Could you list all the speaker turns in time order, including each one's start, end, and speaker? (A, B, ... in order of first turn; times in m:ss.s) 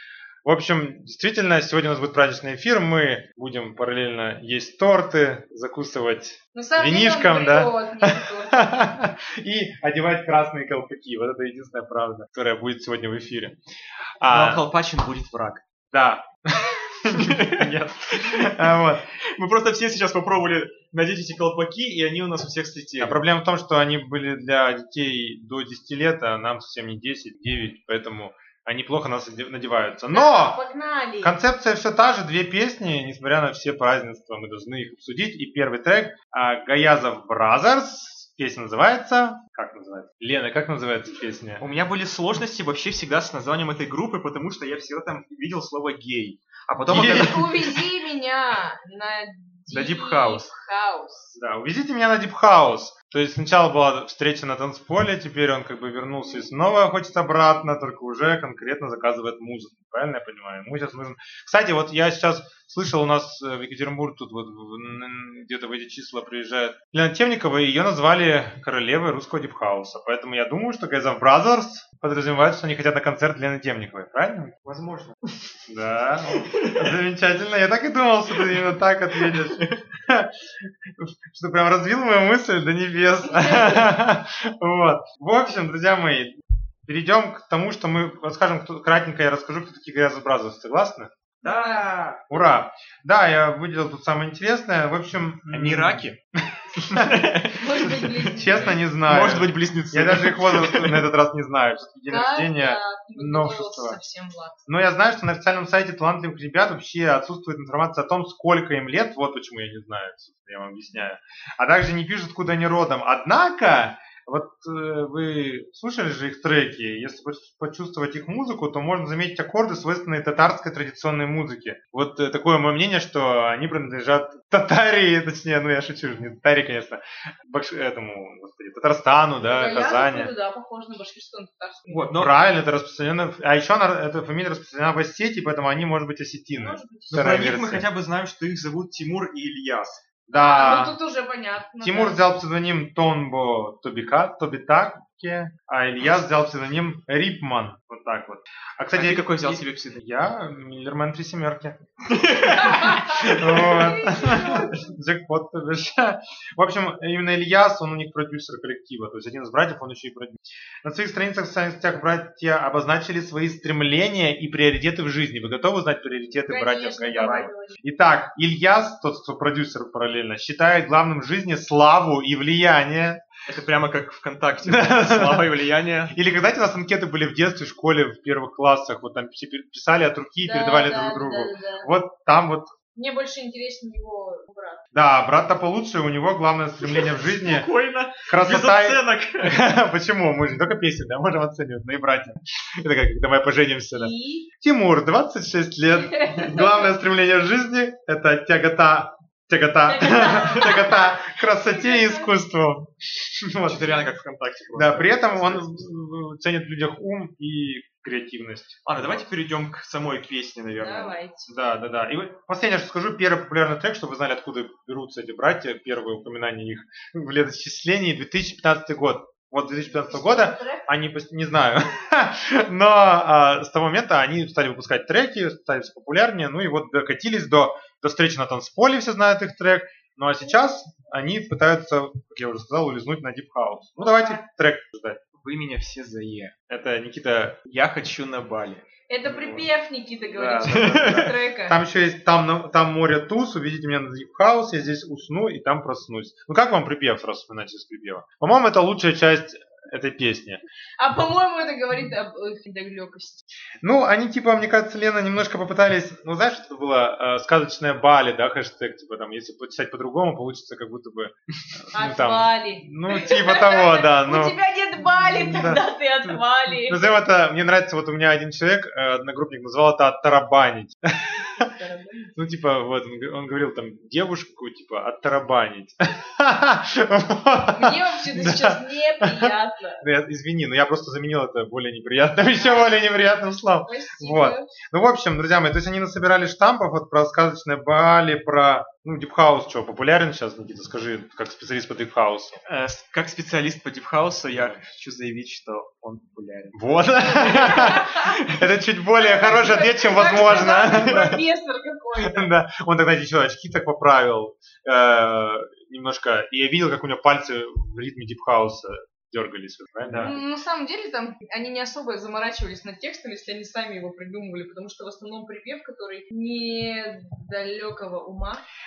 0:00.4-0:13.6 A
0:06.5-0:08.8 B
0:14.2-0:14.6 A
0:14.3-0:15.6 C
0:15.9-0:19.0 A
0:17.1-0:23.2 C
0:23.0-0:30.6 A
0:30.1-0:31.4 B
0:31.2-0:41.6 A
0:41.6-0:47.8 C
0:46.9-0:47.4 A
0:47.0-0:51.3 B
0:49.7-0:50.5 C
0:51.4-1:14.5 A
1:14.6-1:15.2 C
1:15.7-1:20.3 A
1:19.2-1:19.8 C
1:21.0-1:26.3 A
1:23.3-1:23.8 B
1:26.8-1:31.1 A
1:31.4-1:31.8 B
1:31.4-1:32.2 C
1:32.3-1:36.1 A
1:35.5-1:36.2 C
1:36.8-1:41.0 C
1:36.9-1:37.2 A
1:37.6-1:38.8 B
1:38.4-1:44.0 A
1:42.1-1:44.6 B
1:44.6-2:10.3 A
2:09.4-2:12.1 B
2:11.9-2:12.4 C
2:12.1-2:17.8 A
2:16.6-2:17.1 B
2:17.1-2:20.0 C
2:20.3-2:20.9 A
2:20.3-2:22.2 B
2:21.8-2:31.8 A
2:28.9-2:30.0 C
2:32.1-2:33.8 C
2:32.7-2:33.0 B
2:33.2-2:53.2 A
2:33.6-2:34.9 B
2:46.5-2:47.8 B
2:47.2-2:47.4 C
2:53.5-2:56.1 C
2:54.6-2:55.5 A
2:56.1-3:02.7 A
3:00.4-3:01.9 B
3:02.9-3:04.8 B
3:04.9-3:07.7 A
3:06.8-3:09.6 C
3:08.3-3:24.0 A
3:13.9-3:14.5 B
3:15.9-3:16.9 B
3:19.9-3:20.9 B
3:21.4-3:22.3 B
3:23.6-3:25.8 C
3:24.8-3:29.3 A
3:28.8-3:31.2 C
3:30.8-3:31.6 B
3:31.5-3:55.2 A
3:39.7-3:40.9 B
3:54.0-3:54.4 B
3:55.4-3:56.5 C
3:56.7-3:57.6 A
3:57.7-3:58.8 C
3:59.1-4:01.8 B
3:59.2-3:59.7 A
4:00.3-4:10.6 A
4:00.6-4:01.3 C
4:11.0-4:13.4 B
4:13.8-4:31.7 A
4:21.9-4:27.2 B
4:31.4-4:32.3 B
4:32.4-4:52.6 A
4:37.7-4:40.0 B
4:43.8-4:44.7 B
4:52.6-4:58.4 C
4:56.7-5:01.4 A
4:57.7-4:58.2 B
4:59.2-5:02.5 B
5:00.4-5:01.0 C
5:02.2-5:10.4 A
5:10.0-5:10.3 C
5:10.2-5:18.6 B